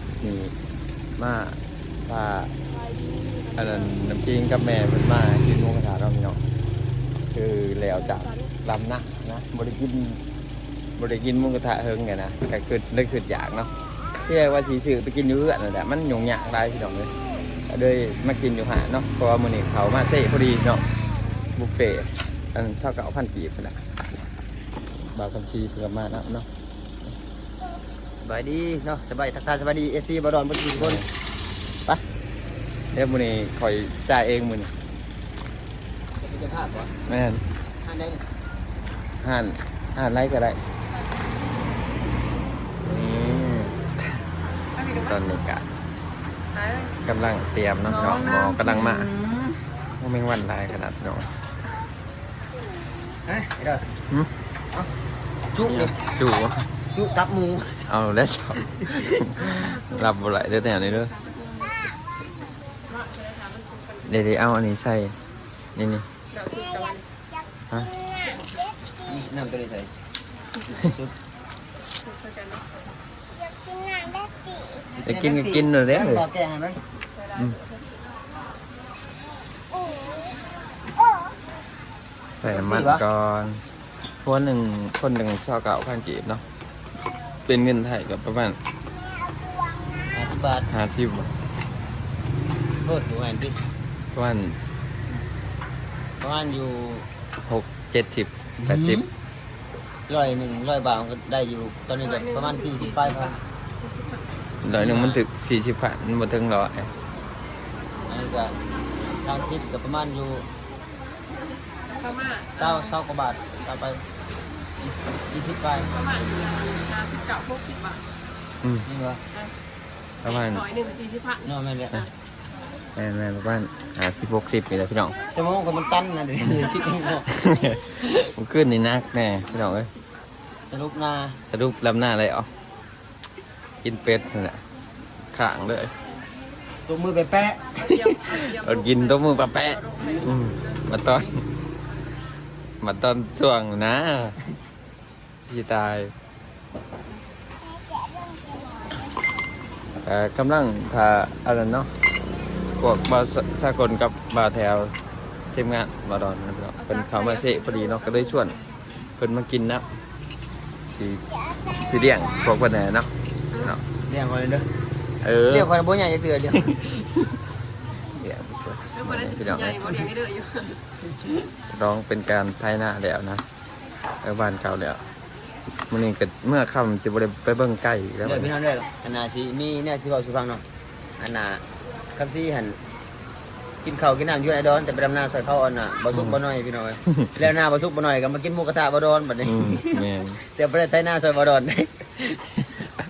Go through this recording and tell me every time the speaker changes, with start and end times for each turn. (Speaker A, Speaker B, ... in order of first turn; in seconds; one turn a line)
Speaker A: 0.2-0.5
Speaker A: 1.2-2.5
Speaker B: 2.7-3.8
Speaker A: 3.5-6.4
Speaker A: 7.3-10.2
Speaker B: 8.1-8.4
Speaker A: 11.0-13.7
Speaker A: 14.2-17.1
Speaker A: 17.7-20.8
Speaker A: 21.5-23.8
Speaker A: 25.1-26.5
Speaker C: 28.2-31.0
Speaker A: 30.8-31.1
Speaker A: 32.9-34.7
Speaker C: 36.2-36.9
Speaker A: 37.1-37.4
Speaker C: 37.8-38.2
Speaker A: 39.2-40.6
Speaker A: 42.8-44.2
Speaker B: 44.8-45.0
Speaker A: 44.9-45.6
Speaker B: 46.5-46.9
Speaker A: 47.0-49.1
Speaker C: 47.9-49.6
Speaker A: 50.0-51.3
Speaker C: 53.2-53.9
Speaker C: 55.5-55.9
Speaker A: 55.6-56.6
Speaker C: 56.9-57.8
Speaker A: 57.9-61.1
Speaker C: 58.9-59.1
Speaker B: 59.5-61.7
Speaker B: 62.9-64.0
Speaker A: 64.0-65.1
Speaker A: 65.8-66.0
Speaker B: 66.3-67.0
Speaker C: 69.0-69.9
Speaker C: 70.8-71.1
Speaker B: 72.0-72.6
Speaker C: 75.0-76.8
Speaker A: 75.0-76.3
Speaker B: 77.2-77.8
Speaker A: 82.4-83.6
Speaker C: 82.4-83.0
Speaker A: 84.2-86.4
Speaker A: 87.4-88.6
Speaker C: 90.1-90.7
Speaker A: 90.7-91.3
Speaker C: 92.8-93.6
Speaker A: 94.1-94.6
Speaker C: 96.2-97.1
Speaker A: 97.4-99.0
Speaker C: 98.6-99.1
Speaker C: 100.1-103.4
Speaker B: 102.0-104.2
Speaker A: 104.6-106.9
Speaker C: 104.7-105.2
Speaker C: 108.1-110.5
Speaker B: 111.9-112.6
Speaker C: 112.5-114.0
Speaker C: 114.8-115.9
Speaker B: 115.9-118.0
Speaker C: 118.8-119.2
Speaker A: 120.2-120.6
Speaker B: 120.3-121.4
Speaker C: 121.4-122.1
Speaker A: 123.0-125.2
Speaker C: 125.3-127.3
Speaker A: 127.3-129.9
Speaker C: 130.7-131.4
Speaker A: 131.5-132.5
Speaker A: 133.8-134.6
Speaker A: 135.3-135.9
Speaker C: 136.9-137.7
Speaker A: 137.8-141.4
Speaker B: 137.8-140.8
Speaker A: 142.8-144.4
Speaker A: 145.4-146.1
Speaker A: 150.0-151.9
Speaker A: 152.8-154.9
Speaker A: 155.5-158.6
Speaker B: 156.8-157.9
Speaker A: 159.2-159.8
Speaker A: 160.9-161.2
Speaker A: 161.7-163.8
Speaker C: 164.1-164.7
Speaker A: 165.2-165.7
Speaker C: 165.5-167.0
Speaker A: 168.1-170.1
Speaker B: 169.0-170.8
Speaker A: 171.7-173.4
Speaker A: 174.2-175.0
Speaker A: 175.9-178.5
Speaker C: 178.2-180.6
Speaker C: 181.2-181.6
Speaker C: 182.1-182.8
Speaker C: 183.8-192.7
Speaker A: 189.4-190.4